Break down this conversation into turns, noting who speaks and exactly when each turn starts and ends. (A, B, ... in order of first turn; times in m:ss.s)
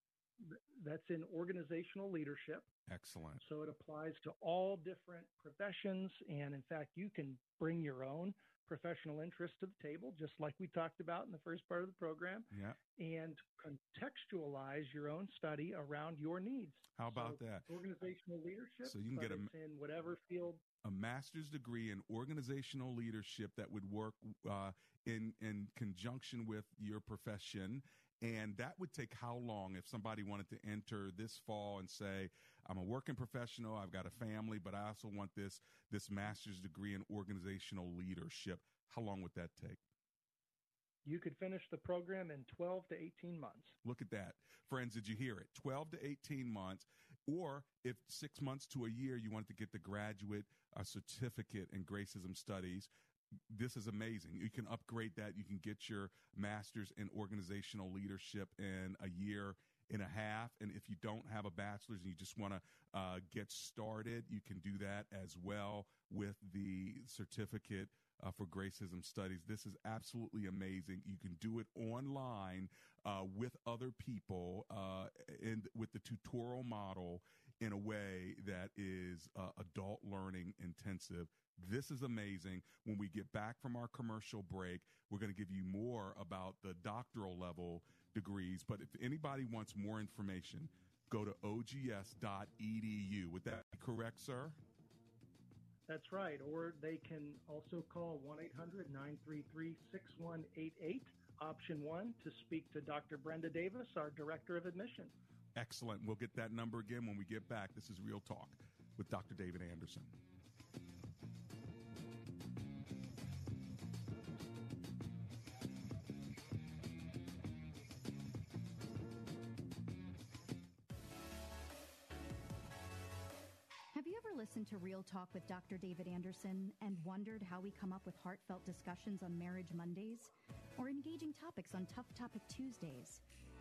0:00.4-0:02.7 A
0:02.9-0:03.4 B
0:03.4-0:20.6 A
0:12.5-0:12.8 B
0:17.0-0:17.7 B
0:18.8-0:19.5 B
0:20.8-0:39.8 B
0:41.0-0:43.7 A
0:43.8-0:52.9 B
0:53.5-1:34.6 B
1:35.9-1:45.1 A
1:45.6-1:50.1 B
2:03.9-2:13.2 C